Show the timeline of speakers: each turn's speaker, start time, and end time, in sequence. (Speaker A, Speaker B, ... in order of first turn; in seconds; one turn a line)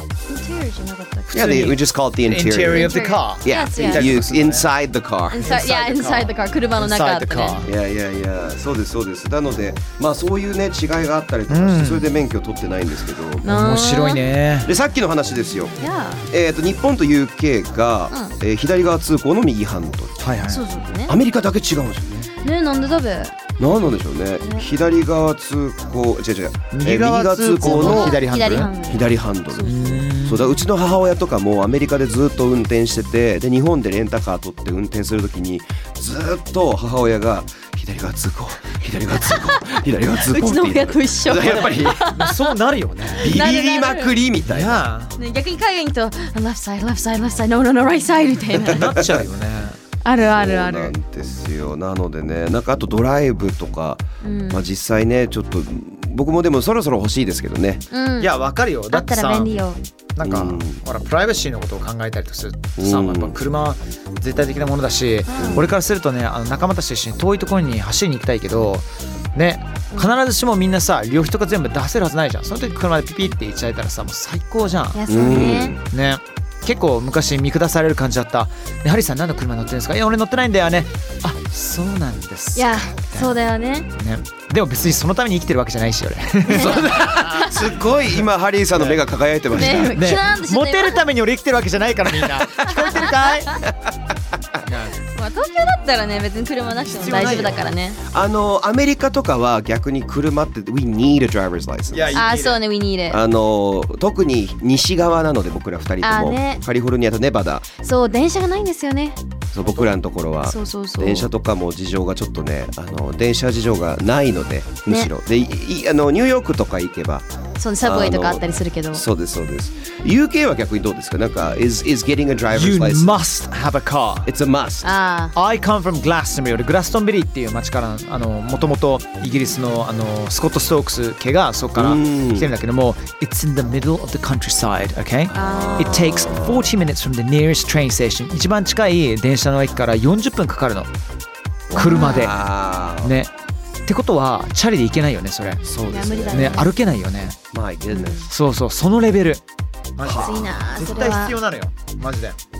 Speaker A: 0.3-1.7
Speaker B: 1.3-5.5
Speaker C: 1.3-4.7
Speaker A: 2.7-4.1
Speaker A: 5.3-7.6
Speaker C: 5.4-7.7
Speaker B: 7.6-13.4
Speaker C: 11.5-12.1
Speaker A: 13.4-14.2
Speaker C: 13.4-14.7
Speaker B: 14.6-15.7
Speaker A: 15.8-16.2
Speaker B: 16.3-20.2
Speaker C: 20.2-20.6
Speaker A: 20.5-21.1
Speaker B: 21.1-22.3
Speaker A: 22.4-23.5
Speaker B: 23.6-28.2
Speaker A: 24.4-24.6
Speaker C: 26.7-28.7
Speaker A: 27.6-30.0
Speaker B: 28.8-42.0
Speaker C: 29.6-30.6
Speaker A: 39.2-42.5
Speaker C: 42.0-43.3
Speaker A: 43.1-44.1
Speaker B: 43.2-44.9
Speaker C: 44.5-45.2
Speaker A: 45.2-48.9
Speaker C: 48.7-49.8
Speaker B: 48.8-49.2
Speaker A: 50.0-50.9
Speaker B: 50.2-57.8
Speaker A: 54.2-54.7
Speaker A: 57.9-58.3
Speaker C: 58.2-59.5
Speaker A: 58.9-59.8
Speaker C: 60.1-83.4
Speaker B: 60.2-60.8
Speaker B: 62.8-63.4
Speaker A: 65.3-65.6
Speaker B: 65.3-65.7
Speaker A: 74.9-75.8
Speaker B: 75.1-75.8
Speaker A: 82.5-83.9
Speaker C: 83.9-87.5
Speaker B: 86.5-90.0
Speaker A: 86.5-87.7
Speaker C: 88.7-89.0
Speaker A: 89.5-91.0
Speaker C: 89.6-93.6
Speaker A: 92.7-93.6
Speaker B: 93.7-93.9
Speaker C: 94.6-95.0
Speaker A: 95.0-98.0
Speaker C: 96.8-97.7
Speaker B: 98.1-102.2
Speaker C: 101.9-102.6
Speaker A: 102.1-103.2
Speaker B: 103.1-107.7
Speaker A: 106.0-106.6
Speaker A: 107.8-109.2
Speaker B: 109.5-117.2
Speaker A: 110.5-111.3
Speaker A: 117.6-119.0
Speaker B: 117.8-123.2
Speaker C: 122.5-124.3
Speaker B: 124.3-124.9
Speaker A: 124.8-125.3
Speaker C: 125.3-140.9
Speaker B: 131.8-132.5
Speaker B: 135.3-136.7
Speaker A: 135.3-136.1
Speaker B: 141.7-143.2
Speaker C: 141.7-142.4
Speaker A: 141.7-142.3
Speaker C: 143.0-143.3
Speaker C: 143.8-145.6
Speaker B: 145.6-146.7
Speaker A: 145.9-146.7
Speaker C: 146.3-147.4
Speaker B: 147.5-148.3
Speaker A: 147.9-148.3
Speaker C: 148.3-149.4
Speaker C: 149.9-152.4
Speaker A: 150.1-151.3